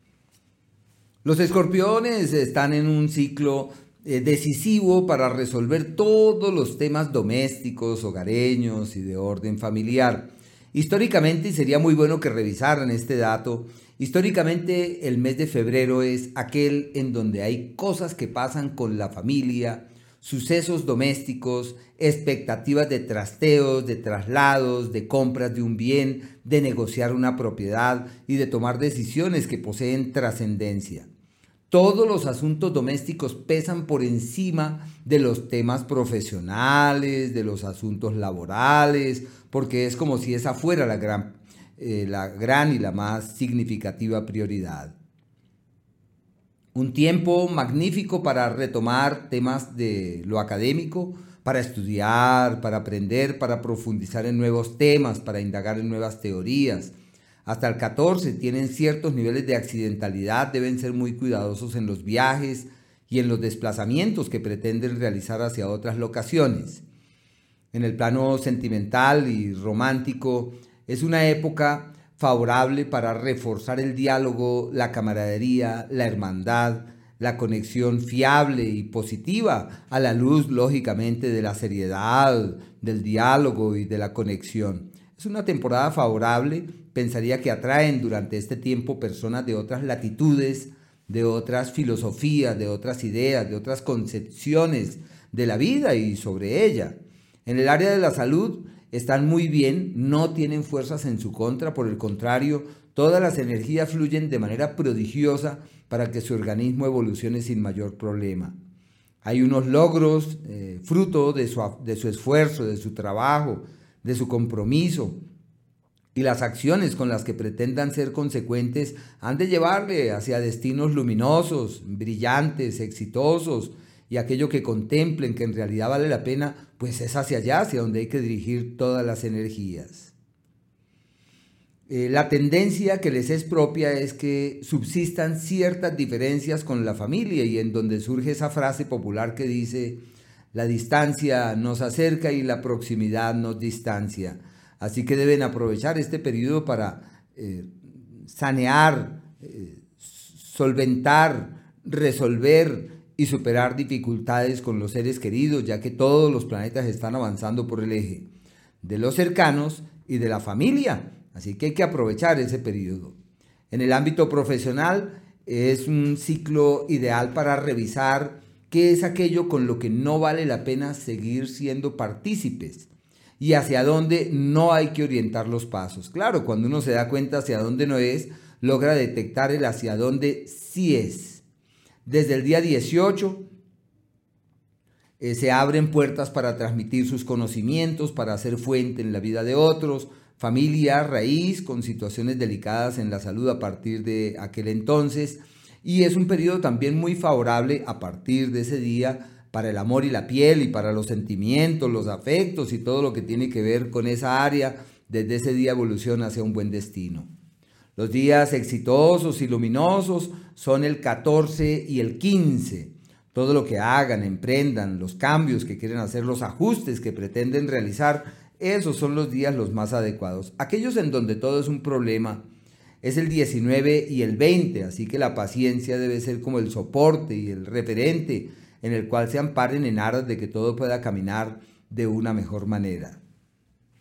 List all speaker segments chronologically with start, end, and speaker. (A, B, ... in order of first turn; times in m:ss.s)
0:01.2-0:31.1 A
0:31.7-0:44.9 A
0:46.7-0:56.9 A
0:57.4-1:06.8 A
1:07.7-1:48.5 A
1:49.2-1:55.2 A
1:56.1-2:10.1 A
2:11.9-2:20.0 A
2:20.5-2:38.3 A
2:38.8-2:43.2 A
2:43.7-3:01.4 A
3:02.0-3:03.4 A
3:05.2-3:27.3 A
3:28.0-3:42.4 A
3:43.0-3:53.2 A